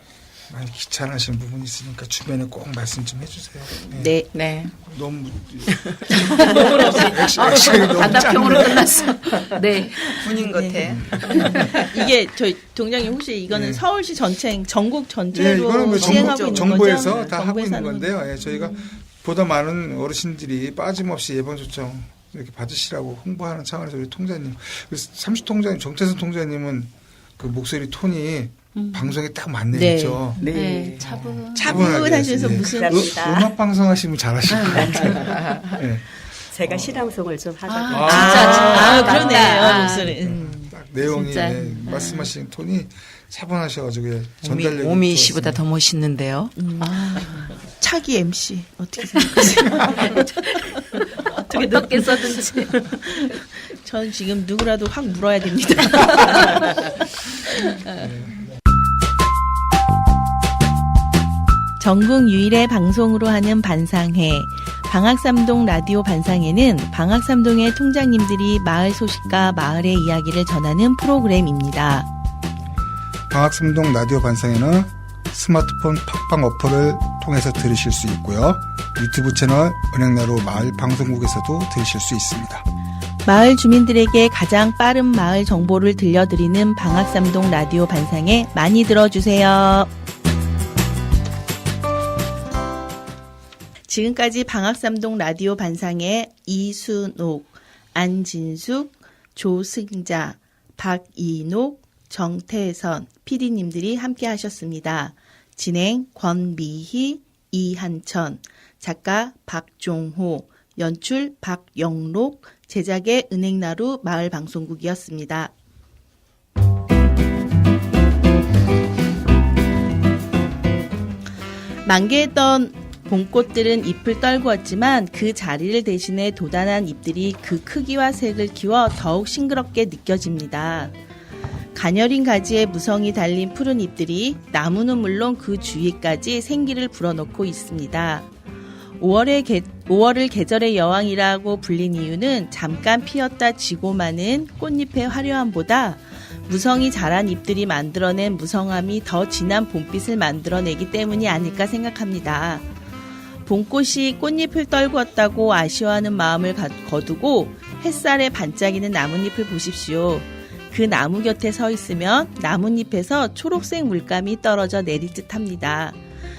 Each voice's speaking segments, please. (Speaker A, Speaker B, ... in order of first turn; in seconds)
Speaker A: 0.5-4.1, 4.7-9.1, 10.8-11.7, 13.5-13.8, 15.3-30.4, 31.6-37.0, 37.9-45.6, 58.0-58.5, 73.3-82.6
Speaker B: 3.8-4.3, 10.5-10.9, 11.9-18.1, 29.7-30.3, 31.6-33.2, 38.0-40.6, 46.5-56.9, 61.8-72.1, 83.2-89.9, 93.9-115.5, 121.8-130.9, 131.7-138.3, 139.0-152.7, 153.4-166.0
Speaker C: 4.3-4.7, 5.7-6.7, 10.2-11.9, 15.9-17.3, 35.3-35.6, 44.4-46.5
Speaker D: 6.4-10.5, 11.3-11.7, 28.7-29.1, 30.4-31.9, 34.5-35.4, 37.6-40.3, 41.0-42.3, 46.8-47.5, 49.3-52.9
Speaker E: 30.4-31.4, 32.0-33.5, 36.5-38.7